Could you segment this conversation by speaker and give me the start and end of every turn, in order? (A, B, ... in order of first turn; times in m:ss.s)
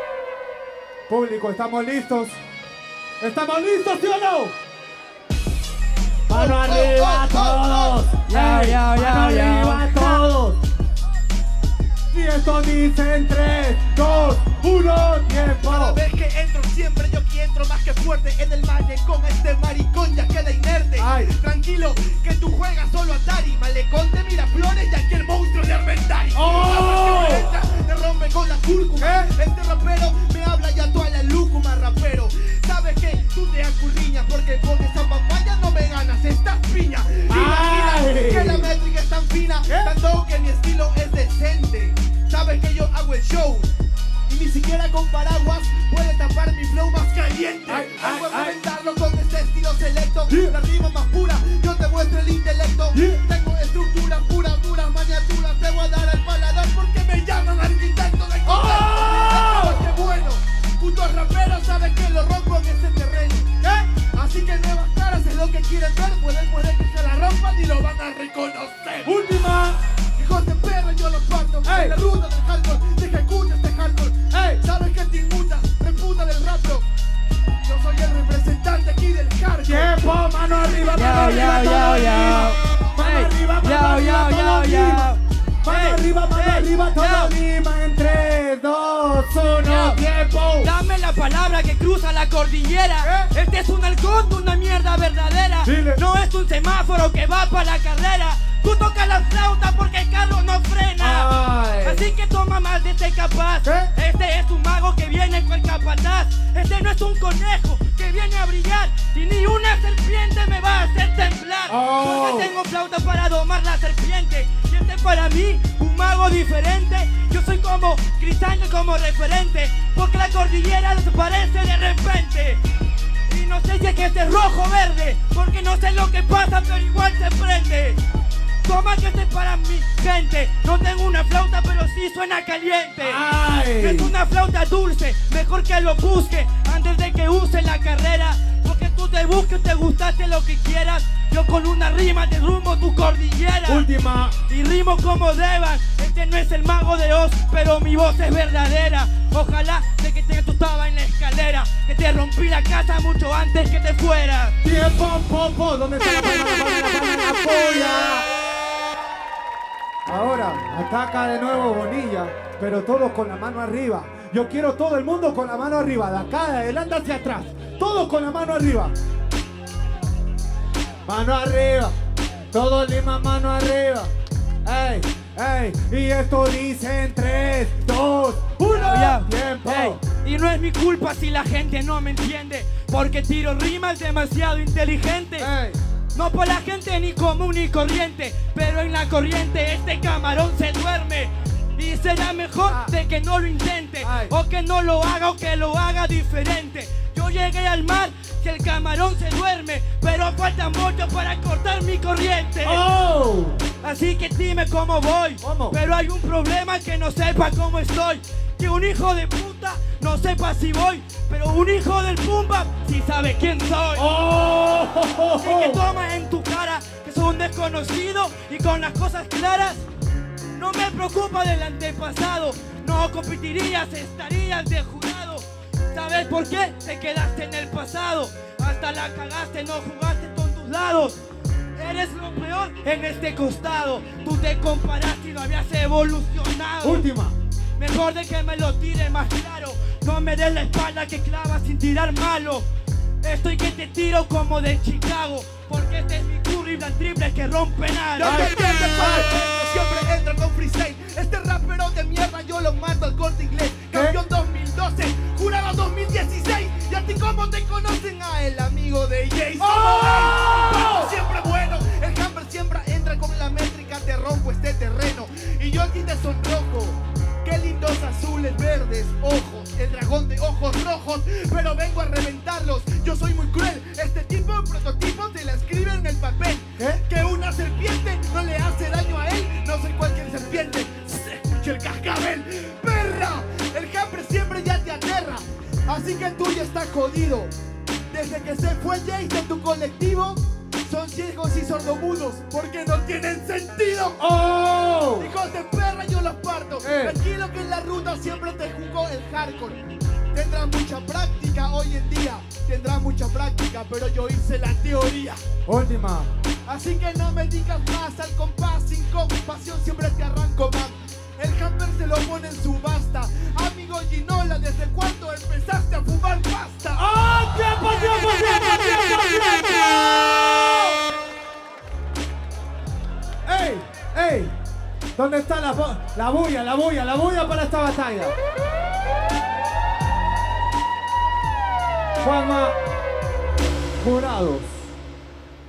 0:01.1-0:02.4 A
0:03.2-0:04.5 A
0:06.3-0:10.6 A
0:06.3-0:08.0 B
0:08.3-0:10.2 C
0:12.1-0:16.0 A
0:15.6-0:43.7 B
0:21.0-0:21.3 A
0:26.3-0:27.5 A
0:29.0-0:29.3 A
0:37.3-0:38.7 A
0:39.7-0:40.0 A
0:44.3-1:03.5 B
0:47.7-0:48.6 A
0:50.3-0:50.5 A
0:52.9-0:53.2 A
0:58.4-0:59.8 A
1:04.1-1:09.1 B
1:09.1-1:09.8 A
1:10.2-1:16.9 B
1:11.6-1:12.0 A
1:14.3-1:14.6 A
1:17.6-1:19.9 B
1:19.6-1:25.1 A
1:20.8-1:21.2 B
1:20.9-1:27.4 C
1:25.6-1:30.7 A
1:29.6-1:30.0 C
1:30.6-2:02.6 C
1:33.0-1:33.3 A
1:35.6-1:36.0 A
1:41.0-1:42.0 A
1:43.6-1:43.9 A
1:51.7-1:52.5 A
2:03.3-2:08.0 C
2:08.6-2:13.2 C
2:13.0-2:14.1 A
2:13.8-2:23.9 C
2:23.6-2:24.4 A
2:24.5-2:34.6 C
2:34.6-2:38.3 A
2:40.1-2:48.9 A
2:51.0-2:51.9 A
2:52.5-2:54.1 A
2:54.6-3:00.0 A
2:58.6-3:05.5 C
3:05.4-3:05.8 A
3:06.1-3:22.8 C
3:12.7-3:12.9 A
3:14.0-3:14.3 A
3:22.6-3:23.6 A
3:23.8-3:34.1 C
3:25.4-3:25.8 A
3:33.9-3:35.8 A
3:35.4-3:39.9 C
3:40.5-3:51.2 C
3:51.8-3:57.1 C
3:56.8-3:57.4 A
3:57.8-4:02.7 C
4:03.2-4:08.5 C
4:08.2-4:47.5 B
4:08.2-4:09.2 A
4:13.9-4:14.2 A
4:19.6-4:21.1 A
4:48.1-4:54.2 B
4:54.2-4:55.3 A
4:55.2-5:05.4 B
4:56.8-4:57.2 A
5:05.7-5:06.3 A
5:06.6-5:17.1 B
5:16.9-5:20.7 A
5:23.4-5:24.5 A
5:25.2-5:28.3 A
5:32.2-5:32.8 A
5:34.0-5:35.0 A